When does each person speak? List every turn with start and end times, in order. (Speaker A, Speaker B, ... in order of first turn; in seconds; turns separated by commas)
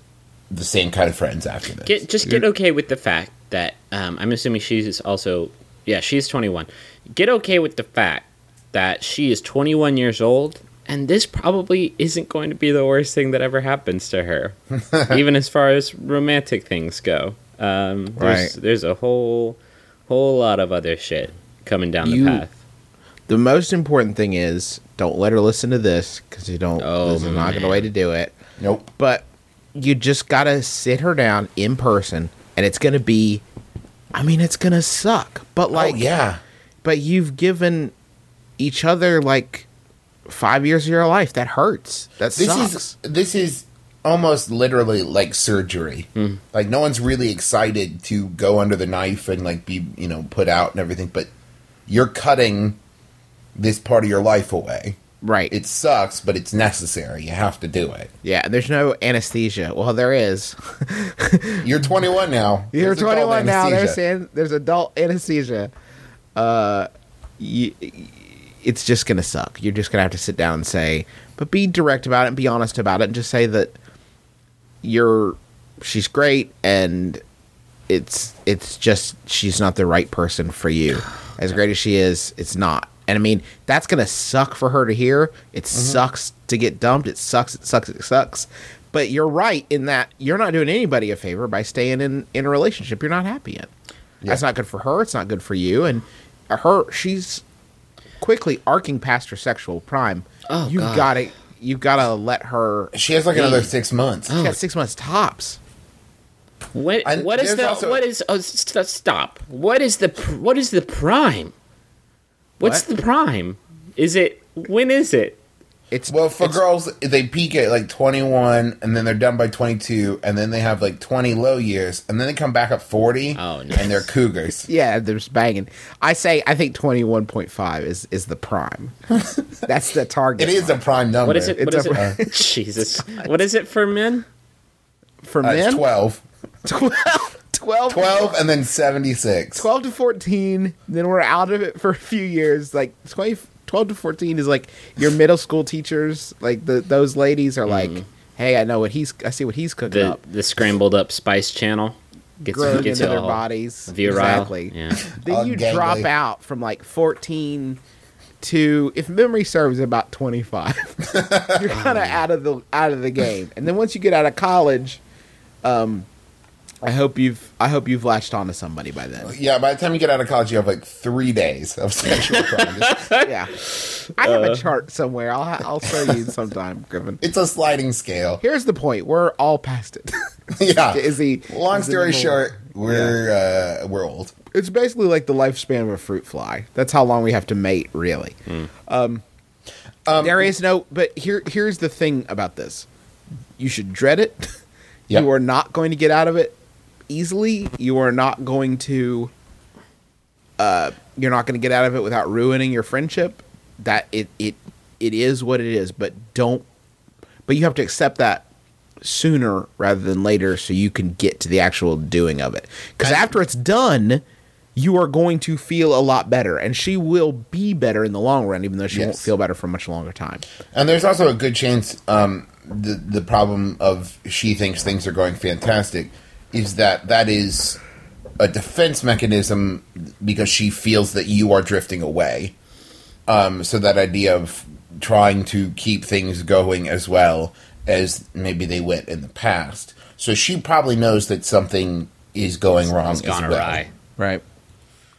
Speaker A: 0.5-2.0, Speaker B: 1.9-22.5, Speaker A: 14.9-15.2, Speaker C: 18.2-18.5, Speaker C: 22.0-22.4, Speaker C: 23.3-28.3, Speaker B: 26.8-27.9, Speaker A: 28.6-28.9, Speaker C: 29.0-33.4, Speaker C: 34.1-36.1, Speaker A: 35.7-36.4, Speaker C: 36.8-37.9, Speaker C: 38.6-39.6, Speaker C: 40.3-42.9, Speaker A: 42.3-51.3, Speaker A: 51.9-52.8, Speaker A: 53.5-55.0, Speaker C: 55.2-55.5, Speaker A: 55.5-58.1, Speaker C: 58.2-61.7, Speaker A: 61.6-64.0, Speaker C: 62.7-65.7, Speaker C: 66.3-73.7, Speaker C: 74.8-77.2, Speaker C: 77.9-93.7, Speaker A: 85.7-86.0, Speaker C: 94.3-97.4, Speaker C: 98.2-102.9, Speaker B: 100.5-101.2, Speaker A: 102.9-104.4, Speaker B: 103.3-103.6, Speaker B: 104.3-104.6, Speaker C: 104.3-105.6, Speaker B: 106.7-111.5, Speaker A: 107.0-108.0, Speaker B: 112.6-115.4, Speaker C: 115.9-116.6, Speaker A: 116.1-124.7, Speaker B: 123.3-124.1, Speaker C: 124.7-128.9, Speaker A: 129.1-129.5, Speaker C: 129.7-130.8, Speaker A: 130.4-132.2, Speaker B: 131.2-134.2, Speaker C: 131.6-133.3, Speaker C: 135.2-135.8, Speaker A: 135.4-136.2, Speaker C: 136.6-138.3, Speaker A: 137.9-139.7, Speaker C: 139.6-150.2, Speaker B: 147.7-148.0, Speaker B: 149.9-155.0, Speaker C: 152.4-157.8, Speaker A: 155.2-156.1, Speaker C: 158.4-165.0, Speaker A: 161.0-161.7, Speaker B: 161.7-162.2, Speaker C: 165.6-166.1, Speaker C: 166.8-169.3, Speaker A: 169.2-173.1, Speaker B: 172.8-174.6, Speaker C: 173.2-173.5, Speaker C: 174.2-177.2, Speaker A: 177.2-178.4, Speaker C: 178.4-180.1, Speaker A: 180.5-184.3, Speaker C: 180.7-183.2, Speaker C: 184.5-189.2, Speaker A: 190.1-190.5, Speaker C: 190.2-192.8, Speaker C: 193.6-194.5, Speaker C: 195.1-196.6, Speaker C: 197.1-199.3, Speaker C: 200.6-206.6, Speaker C: 207.5-208.4, Speaker C: 209.0-214.2, Speaker A: 213.0-213.3, Speaker C: 214.8-220.4, Speaker A: 218.9-219.3, Speaker A: 220.7-227.8, Speaker A: 228.4-232.5, Speaker A: 233.3-243.8, Speaker B: 242.9-243.9, Speaker C: 244.2-244.4